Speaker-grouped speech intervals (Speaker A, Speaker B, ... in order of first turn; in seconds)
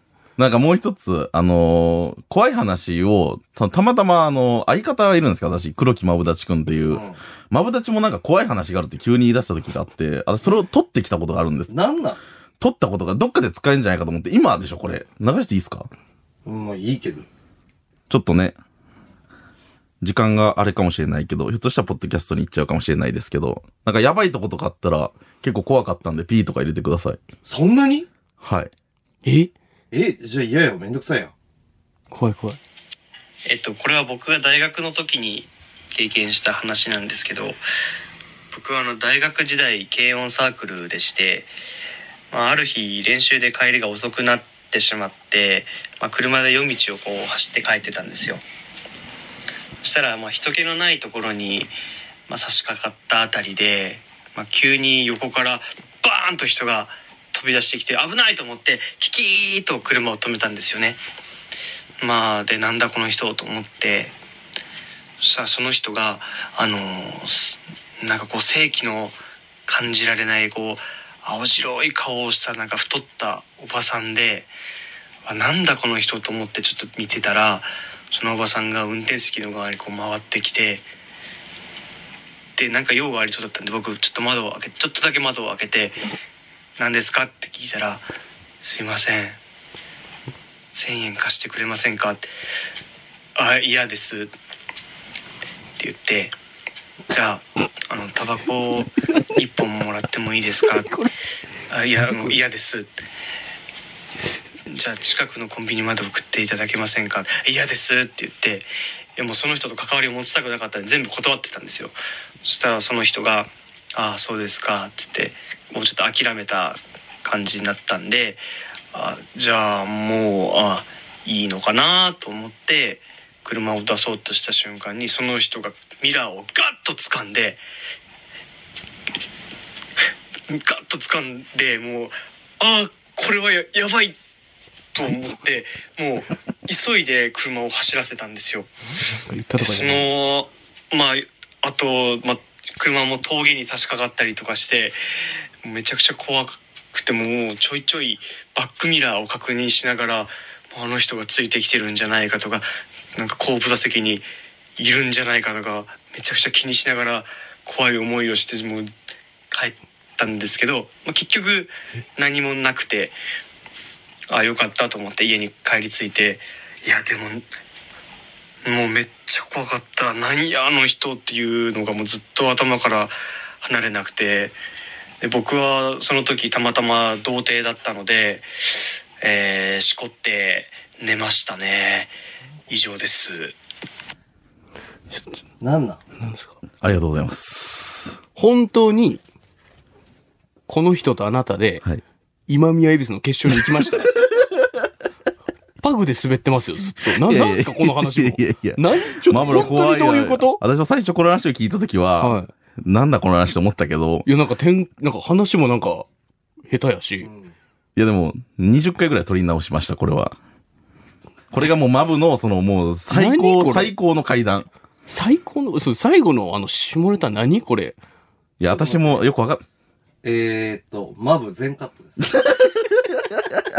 Speaker A: 0.4-11.7, 12.6-15.9, 18.1-18.6, 20.0-27.2, 28.4-28.7, 186.8-188.2, 197.2-204.3, 207.9-210.4, 211.5-214.7, 218.6-219.6
Speaker B: 6.9-7.2, 11.7-12.2, 16.4-17.2, 27.4-28.1, 29.9-31.3, 185.6-186.0, 207.2-207.5, 218.6-219.2, 220.2-222.4
Speaker C: 29.2-29.5, 32.1-32.6, 100.8-101.1, 139.1-140.1, 186.2-186.6, 188.3-189.2, 190.7-191.8, 192.5-194.1, 195.8-200.6, 202.2-202.5, 204.2-206.1, 206.7-207.3, 213.1-213.9, 215.1-218.0
Speaker D: 33.4-37.6, 38.5-41.5, 42.3-48.4, 49.8-51.7, 52.3-61.0, 62.0-64.2, 65.2-74.5, 75.2-80.8, 82.5-86.0, 86.8-88.0, 88.6-89.4, 90.7-92.3, 93.3-94.3, 95.8-96.3, 97.1-100.9, 101.7-102.9, 104.7-118.4, 118.9-127.6, 130.5-134.2, 134.9-138.7, 139.6-145.0, 145.6-158.9, 159.5-163.2, 164.3-167.5, 168.6-174.6, 175.2-178.5, 179.2-182.1, 182.7-183.5